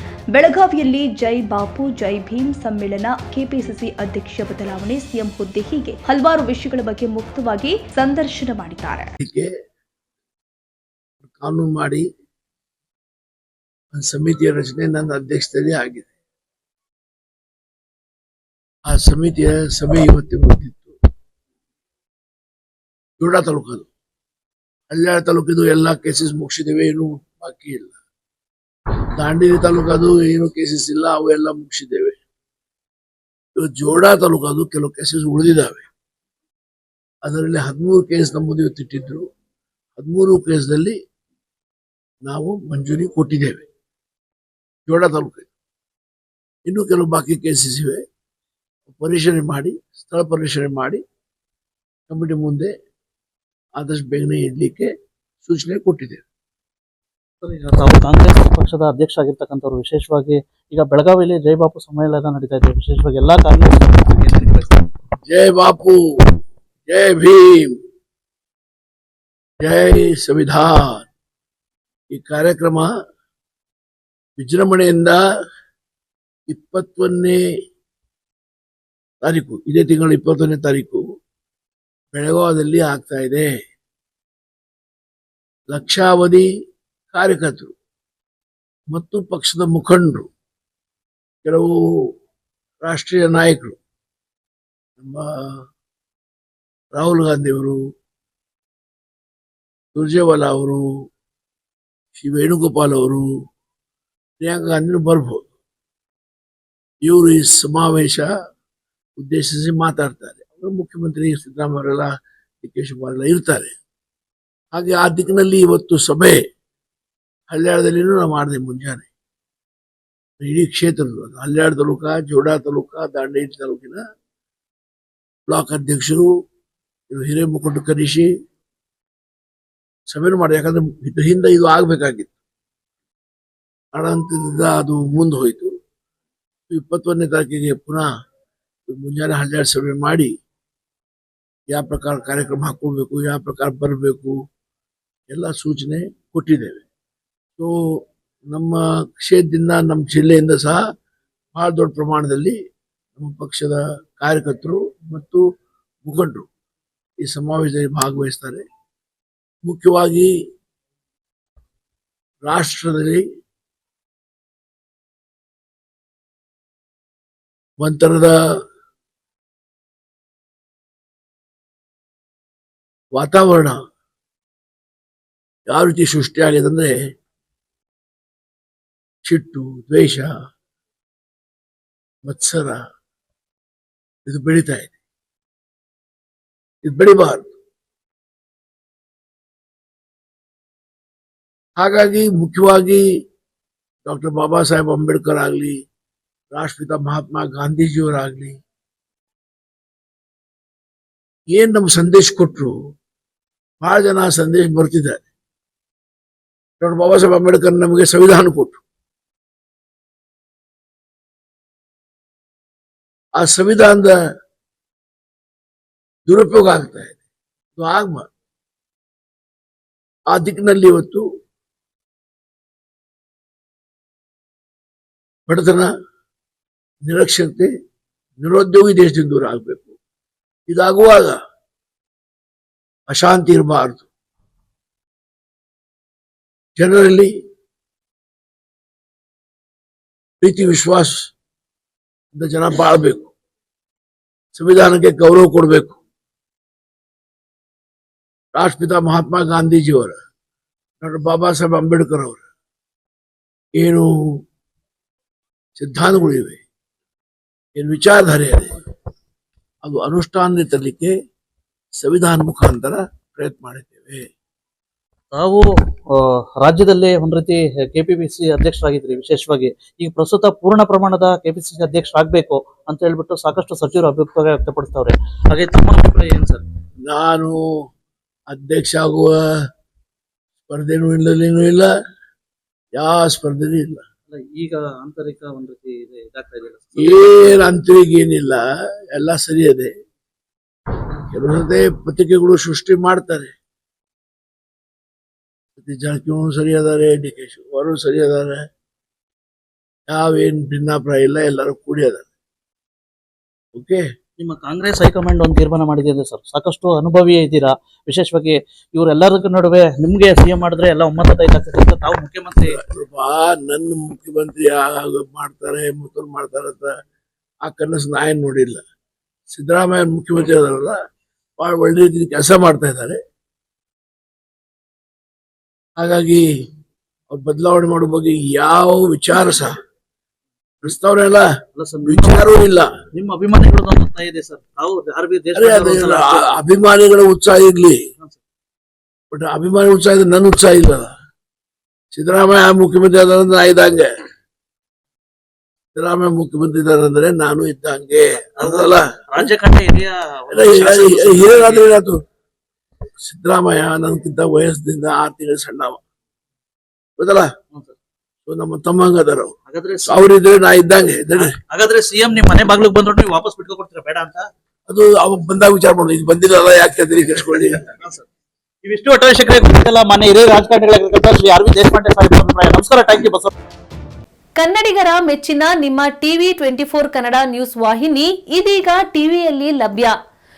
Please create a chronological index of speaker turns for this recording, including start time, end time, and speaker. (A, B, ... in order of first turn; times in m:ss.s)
0:00.3-0:09.1 A
0:09.2-0:09.5 B
0:11.4-0:12.0 B
0:13.9-0:16.1 B
0:18.8-0:21.0 B
0:23.2-0:23.9 B
0:24.9-0:28.0 B
0:29.2-0:32.2 B
0:33.6-0:35.8 B
0:37.2-0:39.2 B
0:40.0-0:41.0 B
0:42.2-0:43.6 B
0:44.9-0:45.5 B
0:46.6-0:48.0 B
0:48.9-0:51.0 B
0:52.1-0:52.7 B
0:53.8-0:54.9 B
0:55.4-0:56.2 B
0:57.4-1:04.9 C
1:05.2-1:06.4 B
1:06.9-1:07.8 B
1:09.6-1:11.0 B
1:12.1-1:12.9 B
1:14.4-1:15.2 B
1:16.5-1:17.4 B
1:19.2-1:21.0 B
1:22.1-1:23.5 B
1:25.7-1:26.5 B
1:27.1-1:27.7 B
1:28.9-1:30.3 B
1:31.4-1:32.1 B
1:32.8-1:33.8 B
1:35.0-1:35.6 B
1:36.9-1:37.8 B
1:39.9-1:40.8 B
1:42.1-1:43.3 B
1:44.4-1:45.5 B
1:47.0-1:48.3 B
1:49.2-1:52.1 B
1:52.6-1:53.7 B
1:54.7-1:56.4 B
1:57.5-1:59.1 B
2:00.4-2:04.0 B
2:05.5-2:06.3 B
2:07.1-2:08.3 B
2:10.1-2:12.3 B
2:13.9-2:15.7 B
2:16.7-2:18.1 B
2:18.9-2:20.3 B
2:21.7-2:24.4 B
2:25.3-2:26.8 B
2:27.6-2:30.8 B
2:31.5-2:32.6 B
2:33.2-2:35.4 B
2:36.0-2:36.5 B
2:37.2-2:38.6 B
2:39.6-2:40.3 B
2:42.4-2:43.2 B
2:47.8-2:48.4 B
2:53.1-2:53.8 B
2:55.7-2:57.0 B
2:59.2-3:00.3 B
3:02.2-3:02.8 B
3:04.2-3:04.9 B
3:06.8-3:07.5 B
3:11.8-3:13.0 B
3:14.0-3:15.8 B
3:16.5-3:18.6 B
3:21.5-3:22.7 B
3:23.8-3:25.3 B
3:26.8-3:28.8 B
3:33.4-3:34.2 B
3:36.2-3:37.2 B
3:37.8-3:38.3 B
3:40.3-3:41.2 B
3:45.5-3:45.9 B
3:47.0-3:47.7 B
3:48.4-3:49.9 B
3:50.7-3:51.4 B
3:53.1-3:54.1 B
3:56.8-3:57.3 B
4:00.4-4:01.2 B
4:02.3-4:03.3 B
4:04.5-4:06.0 B
4:08.5-4:10.2 B
4:11.0-4:12.4 B
4:13.7-4:14.4 B
4:15.8-4:16.6 B
4:17.7-4:18.8 B
4:19.8-4:21.1 B
4:22.0-4:24.3 B
4:25.3-4:36.6 C
4:37.0-4:37.6 B
4:38.5-4:39.4 B
4:40.7-4:41.9 B
4:42.9-4:44.0 B
4:44.3-4:47.6 C
4:47.0-4:49.9 B
4:51.3-4:53.5 B
4:55.8-4:58.6 B
5:00.1-5:02.3 B
5:03.7-5:04.0 B
5:04.4-5:12.8 C
5:12.6-5:16.9 B
5:17.6-5:18.8 B
5:19.5-5:21.0 B
5:21.6-5:23.2 B
5:26.0-5:26.5 B
5:27.3-5:29.8 B
5:30.8-5:31.5 B
5:31.8-5:32.4 C
5:32.0-5:32.9 B
5:33.1-5:36.5 C
5:35.5-5:38.0 B
5:39.3-5:41.1 B
5:42.1-5:44.1 B
5:45.9-5:49.1 B
5:48.6-5:51.9 C
5:50.5-5:52.2 B
5:53.2-5:56.0 B
5:57.2-5:57.5 B
5:58.4-5:59.5 B
5:59.7-6:00.3 C
6:00.0-6:01.6 B
6:01.3-6:04.5 C
6:04.9-6:07.9 B
6:08.0-6:08.3 C
6:08.8-6:13.5 C
6:14.6-6:20.1 D